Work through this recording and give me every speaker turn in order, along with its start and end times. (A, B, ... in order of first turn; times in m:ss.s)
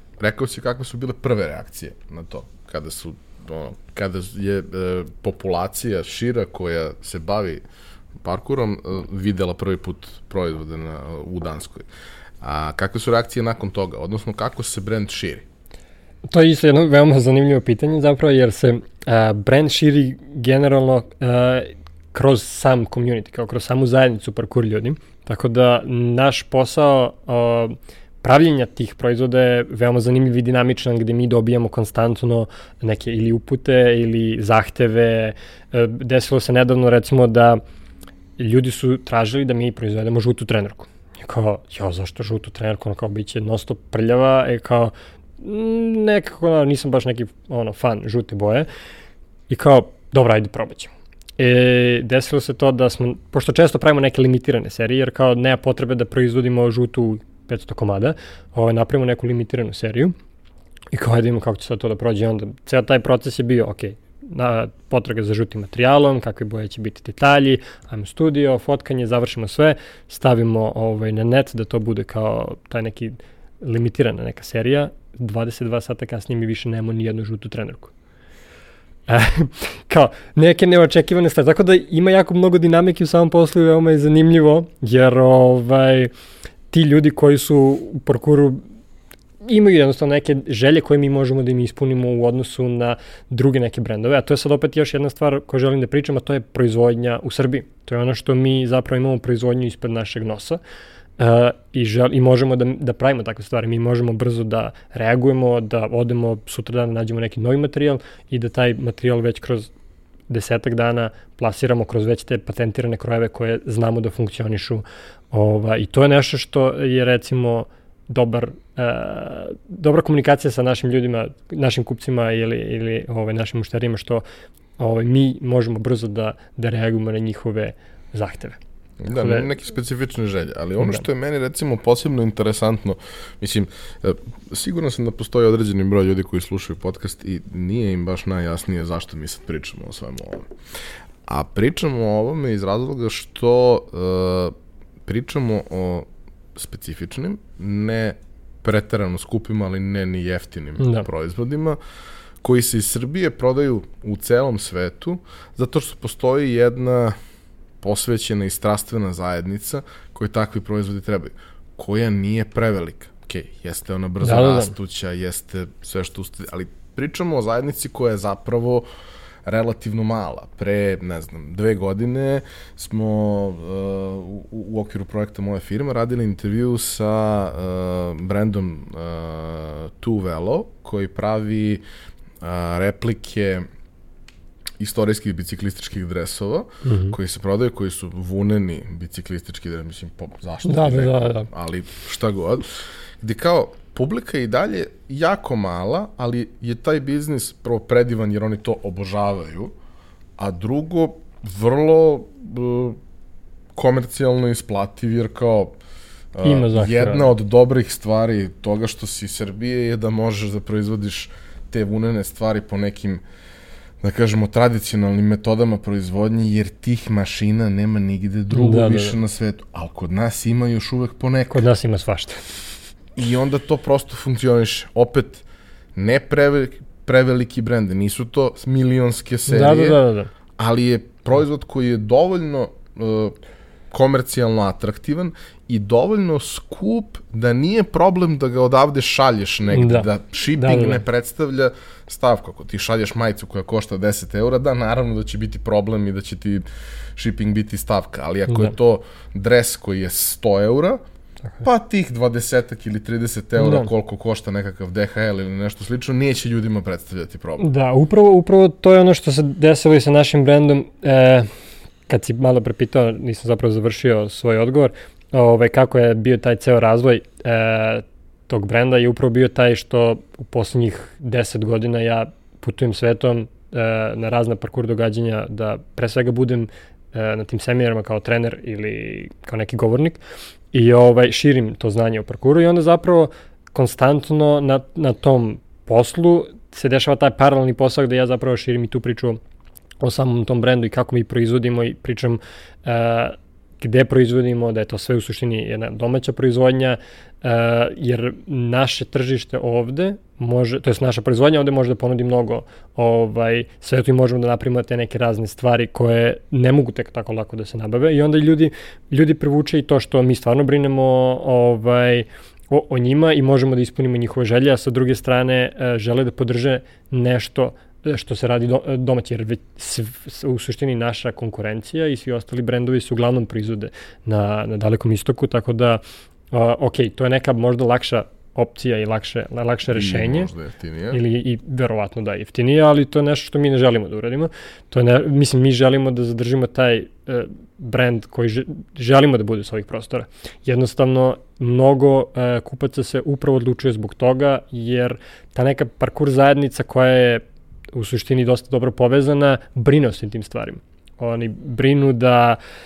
0:00.2-0:07.6 A
0:08.2-0:11.9 A
0:12.4-0:15.5 A
0:16.3-0:37.6 B
0:38.4-0:48.7 B
0:49.5-1:00.2 B
1:00.9-1:17.9 B
1:19.1-1:26.1 B
1:26.7-1:28.6 B
1:29.4-1:40.6 B
1:41.2-1:49.7 B
1:50.3-2:04.2 B
2:04.8-2:08.6 B
2:09.0-2:20.5 A
2:09.1-2:09.5 B
2:21.3-2:24.5 A
2:25.1-2:31.8 A
2:30.8-2:31.1 B
2:32.4-2:37.2 A
2:37.8-2:48.8 A
2:44.2-2:44.7 B
2:49.4-3:01.8 A
3:02.4-3:03.7 A
3:04.8-3:19.7 A
3:06.8-3:07.2 B
3:10.6-3:11.5 B
3:20.4-3:23.0 A
3:23.8-3:25.7 A
3:26.4-3:33.2 A
3:26.4-3:27.3 B
3:34.0-3:41.6 A
3:38.5-3:39.2 B
3:41.5-3:42.5 B
3:43.2-3:45.4 A
3:46.0-3:50.0 A
3:49.5-3:50.3 B
3:50.6-3:53.4 A
3:53.9-4:06.6 A
3:59.7-4:01.0 B
4:07.2-4:11.0 A
4:08.5-4:08.7 B
4:11.6-4:17.7 A
4:13.6-4:13.9 B
4:17.6-4:21.5 B
4:22.1-4:40.2 B
4:40.7-4:49.4 B
4:50.0-5:30.5 B
5:29.9-5:31.2 A
5:31.1-5:52.6 B